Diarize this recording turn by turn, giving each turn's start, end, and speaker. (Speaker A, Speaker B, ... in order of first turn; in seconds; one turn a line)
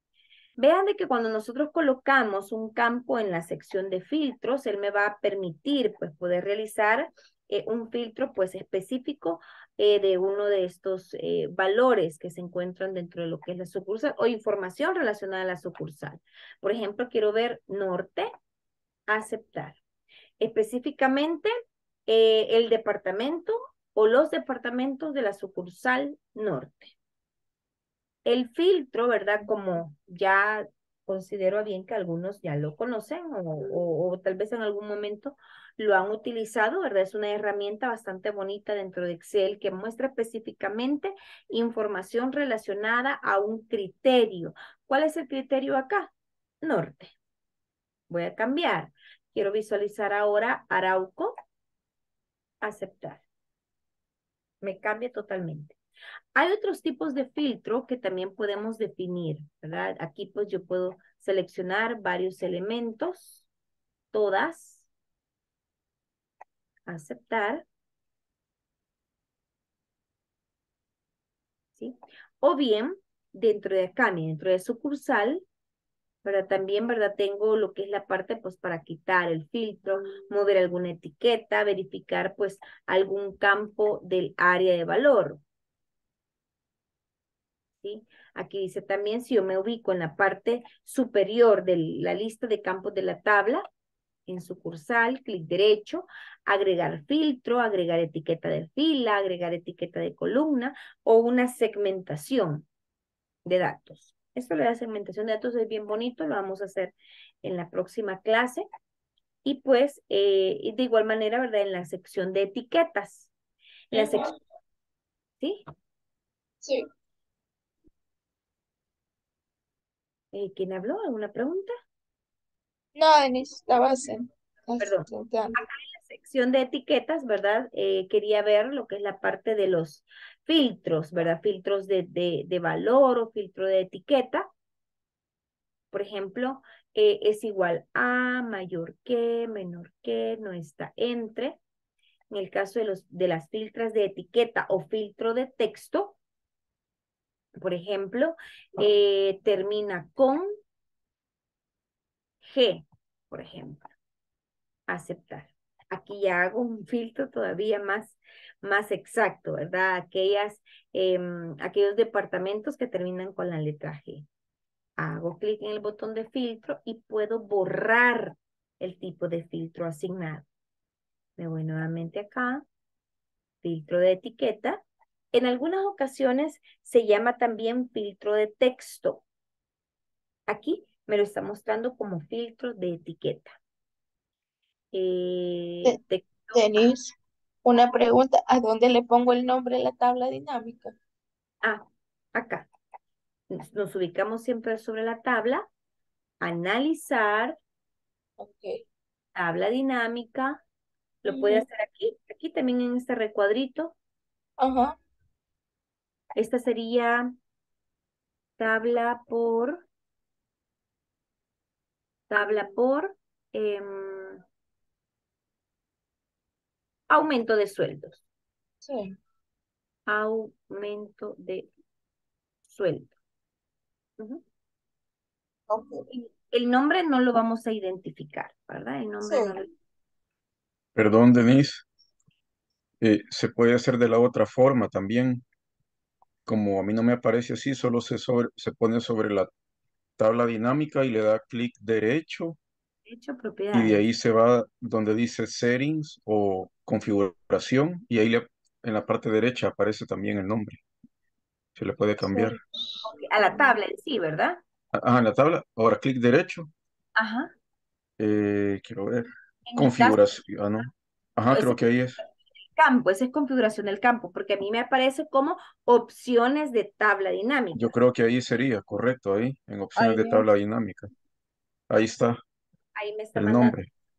Speaker A: 0.6-18.3
Speaker A: 19.1-19.8
Speaker A: 20.4-21.5
Speaker A: 22.1-26.9
Speaker A: 28.2-47.1
Speaker A: 48.1-51.4
Speaker A: 52.6-53.2
Speaker A: 54.6-55.8
Speaker A: 56.4-63.5
Speaker A: 64.1-64.9
Speaker A: 66.9-67.7
Speaker A: 71.8-75.4
Speaker A: 76.2-85.4
Speaker A: 87.8-93.7
Speaker A: 94.3-102.7
Speaker A: 103.5-108.7
Speaker A: 109.4-113.3
Speaker A: 113.9-114.4
Speaker B: 113.9-114.3
Speaker A: 115.4-115.7
Speaker A: 120.3-121.7
Speaker B: 123.0-125.6
Speaker A: 124.8-134.5
Speaker A: 135.9-141.6
Speaker A: 142.3-146.2
Speaker A: 147.6-150.5
Speaker A: 152.4-153.9
Speaker A: 154.9-164.3
Speaker A: 165.0-170.5
Speaker A: 171.4-172.7
Speaker A: 173.6-179.2
Speaker A: 180.5-183.5
Speaker A: 184.9-186.5
Speaker B: 186.5-190.9
Speaker A: 191.6-192.7
Speaker A: 193.5-195.7
Speaker A: 196.4-197.6
Speaker B: 198.4-198.8
Speaker A: 199.4-200.6
Speaker A: 201.2-203.9
Speaker B: 201.3-201.7
Speaker B: 204.6-205.0
Speaker A: 206.4-207.3
Speaker A: 208.6-209.8
Speaker A: 212.3-214.4
Speaker A: 217.1-218.2
Speaker B: 218.8-219.2
Speaker A: 220.1-221.7
Speaker A: 222.7-223.1
Speaker B: 225.7-226.1
Speaker A: 226.1-229.7
Speaker B: 229.2-229.6
Speaker C: 230.9-231.8
Speaker C: 233.0-235.4
Speaker C: 236.5-239.5
Speaker C: 240.2-242.6
Speaker A: 243.1-244.0
Speaker C: 243.7-250.8
Speaker C: 251.8-252.6
Speaker B: 252.3-253.6
Speaker A: 253.0-254.6
Speaker C: 254.9-256.7
Speaker A: 257.2-257.5
Speaker C: 258.2-262.2
Speaker A: 259.7-260.2
Speaker A: 261.5-261.8
Speaker A: 262.8-267.9
Speaker C: 267.8-271.1
Speaker A: 270.0-270.4
Speaker C: 271.9-272.4
Speaker A: 273.0-273.8
Speaker C: 273.4-273.9